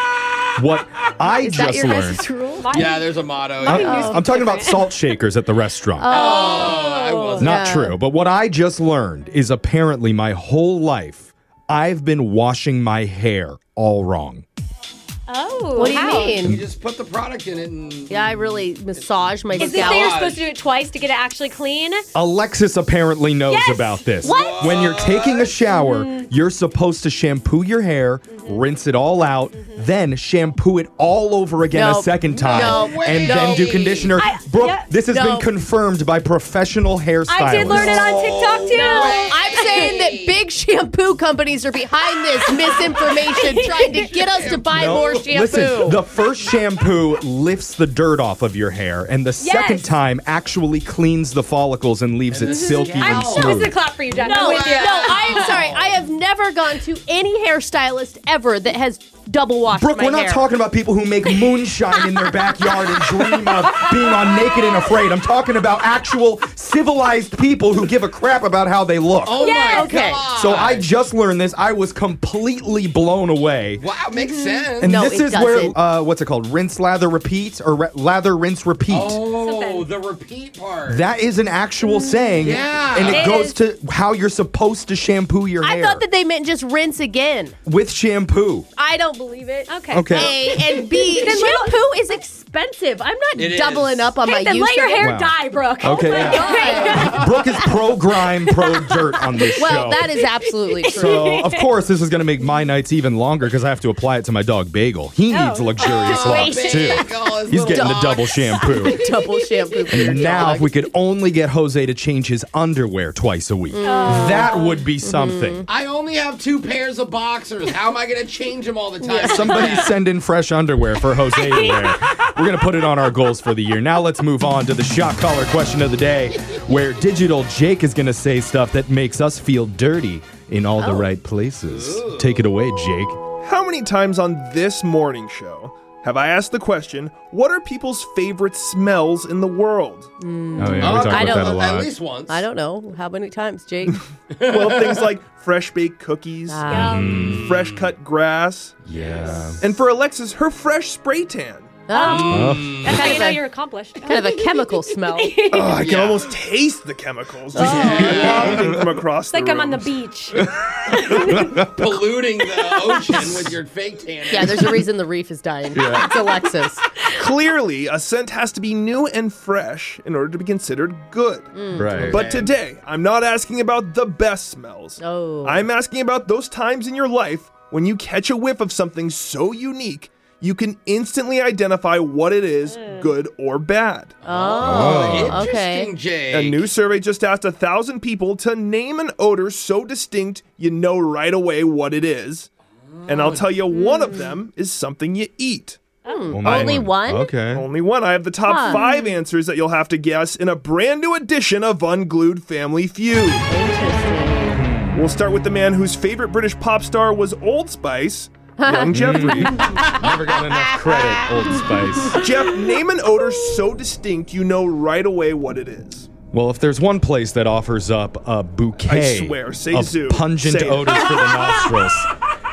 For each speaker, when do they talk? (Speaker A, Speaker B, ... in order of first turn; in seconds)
Speaker A: 0.6-2.2, 3.6-6.1, 7.4-14.4, 22.1-38.8, 44.7-53.8, 59.7-69.5, 70.3-73.8, 74.8-79.2, 80.9-86.0, 87.6-88.7, 89.9-90.4, 95.0-100.1, 100.9-109.1, 109.9-115.6, 119.2-133.2, 140.6-141.9, 146.7-147.5, 148.9-149.6, 152.3-153.2, 157.6-159.0, 160.3-162.0, 163.2-163.4, 165.7-166.1, 171.8-172.2, 184.6-185.4, 196.3-197.7, 204.5-205.1, 208.9-212.3, 216.3-222.1
Speaker B: 1.2-2.9, 3.6-4.4, 6.0-6.8, 7.4-8.0, 15.8-16.6, 18.1-20.2, 24.2-24.9, 31.7-33.6, 35.1-35.5, 38.7-46.0, 54.2-60.5, 69.6-70.3, 74.2-75.8, 82.1-82.6, 85.6-87.6, 88.8-95.1, 96.1-97.6, 99.6-101.3, 106.1-110.8, 113.7-115.7, 119.0-119.9, 130.8-131.1, 140.2-144.0, 146.5-147.0, 151.9-153.4, 154.0-155.3, 157.5-158.6, 164.3-166.8, 171.5-172.1, 175.0-175.6, 184.2-185.9, 193.7-194.2, 196.1-197.3, 198.4-198.9, 203.5-204.6, 208.6-209.7
Speaker C: 2.6-4.9, 6.1-7.6, 15.3-16.5, 19.6-22.1, 23.5-24.3, 25.6-26.3, 28.3-28.6, 29.6-29.8, 34.1-34.9, 37.3-39.8, 42.6-44.1, 49.4-49.9, 52.5-55.6, 62.9-64.6, 69.3-70.1, 79.2-79.9, 83.1-83.6, 89.7-91.8, 94.2-97.2, 98.6-99.7, 100.7-101.7, 105.3-106.9, 108.6-108.9, 113.8-114.8, 121.5-121.9, 146.7-147.1, 151.9-155.7, 159.3-161.7, 162.8-163.2, 182.7-183.1, 196.0-196.4
Speaker D: 2.8-3.9, 6.1-7.5, 16.5-20.5, 24.2-25.5, 32.4-34.2, 38.6-40.4, 44.1-45.2, 52.3-53.6, 54.4-56.0, 69.2-70.9, 73.8-75.0, 78.9-81.0, 82.4-83.3, 93.3-94.2, 106.1-108.7, 115.7-120.0, 131.7-132.4, 140.8-142.4, 144.3-145.1, 147.1-147.9, 148.9-149.6, 152.1-153.0, 155.7-156.2, 157.6-158.4, 161.7-164.7, 172.1-172.6, 184.2-186.7, 192.9-193.6, 209.6-210.1
Speaker E: 133.4-140.1, 144.4-148.8, 149.6-151.8, 155.5-160.0, 167.1-184.2, 186.3-192.5, 193.1-196.9, 197.5-203.5, 204.9-209.7, 212.1-216.1, 218.8-221.6